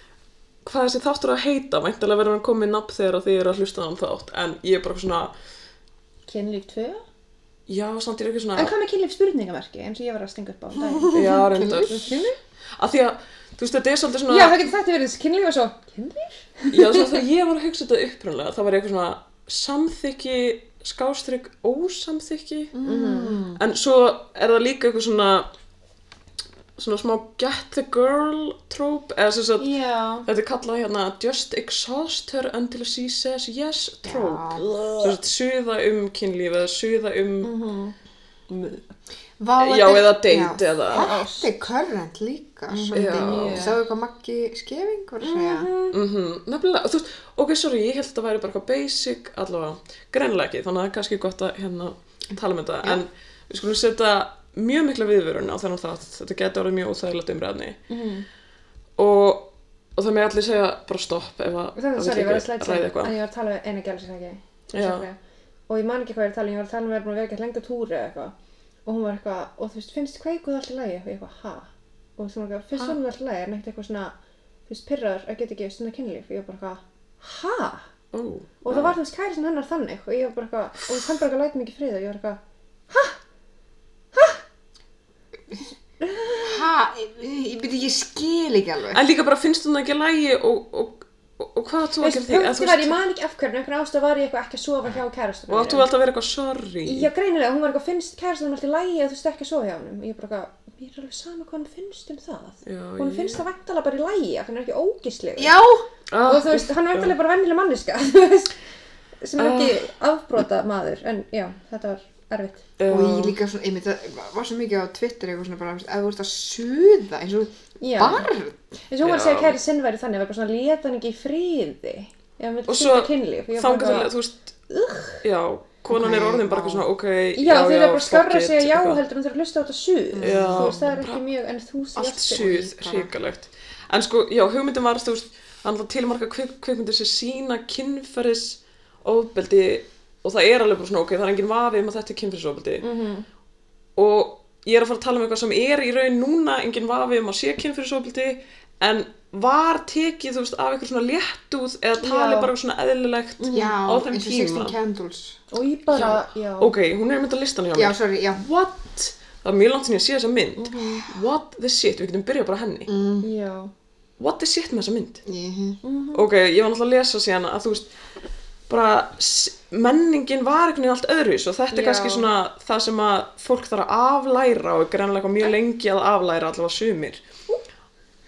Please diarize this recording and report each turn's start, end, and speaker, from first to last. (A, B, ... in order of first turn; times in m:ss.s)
0:00.6-0:05.3 A
0:06.3-0:07.0 B
0:07.7-0:08.7 A
0:08.5-0:12.4 B
0:10.8-0:12.2 C
0:11.1-0:12.2 A
0:12.8-0:14.6 A
0:14.3-0:17.2 B
0:16.7-0:22.7 A
0:22.7-0:23.6 C
0:22.8-0:23.5 B
0:23.6-0:25.5 A
0:26.8-0:37.5 A
0:29.6-0:30.2 B
0:34.0-0:34.8 C
0:37.4-0:37.9 B
0:38.5-0:38.8 B
0:39.4-0:45.7 C
0:39.6-0:41.1 A
0:40.9-0:41.6 B
0:42.7-0:43.8 B
0:42.9-0:43.7 A
0:45.2-0:46.0 B
0:45.9-0:57.8 A
0:57.9-0:58.2 B
0:59.0-1:03.1 A
1:01.8-1:08.3 B
1:04.7-1:05.0 A
1:08.8-1:14.1 B
1:14.7-1:17.8 B
1:18.1-1:19.0 A
1:18.6-1:23.2 B
1:24.1-1:24.4 B
1:26.0-1:26.7 B
1:26.4-1:29.0 C
1:28.9-1:33.0 A
1:32.0-1:35.9 B
1:35.5-1:37.1 A
1:36.8-1:45.5 B
1:42.6-1:43.4 A
1:45.4-1:45.8 C
1:46.1-1:47.1 A
1:46.2-1:48.5 B
1:49.2-1:52.6 B
1:49.4-1:49.9 A
1:52.8-1:53.4 A
1:52.9-1:58.6 C
1:57.8-1:58.3 B
1:58.9-2:04.1 B
1:59.0-1:59.6 A
2:02.7-2:04.5 A
2:04.7-2:05.2 B
2:05.2-2:09.0 A
2:05.9-2:06.9 C
2:07.4-2:12.6 B
2:10.1-2:11.0 C
2:10.2-2:11.2 A
2:12.0-2:22.8 A
2:12.3-2:13.1 C
2:22.8-2:23.2 B
2:24.0-2:34.8 A
2:32.0-2:32.5 B
2:33.4-2:33.7 B
2:33.5-2:35.4 C
2:35.5-2:36.7 B
2:35.9-2:42.9 A
2:37.7-2:38.5 C
2:40.6-2:41.0 B
2:40.7-2:41.1 C
2:42.9-2:43.3 C
2:43.2-2:43.7 B
2:44.2-2:45.2 A
2:45.2-2:45.8 C
2:45.8-2:46.2 B
2:46.1-2:47.9 A
2:48.7-2:57.2 A
2:51.7-2:52.3 B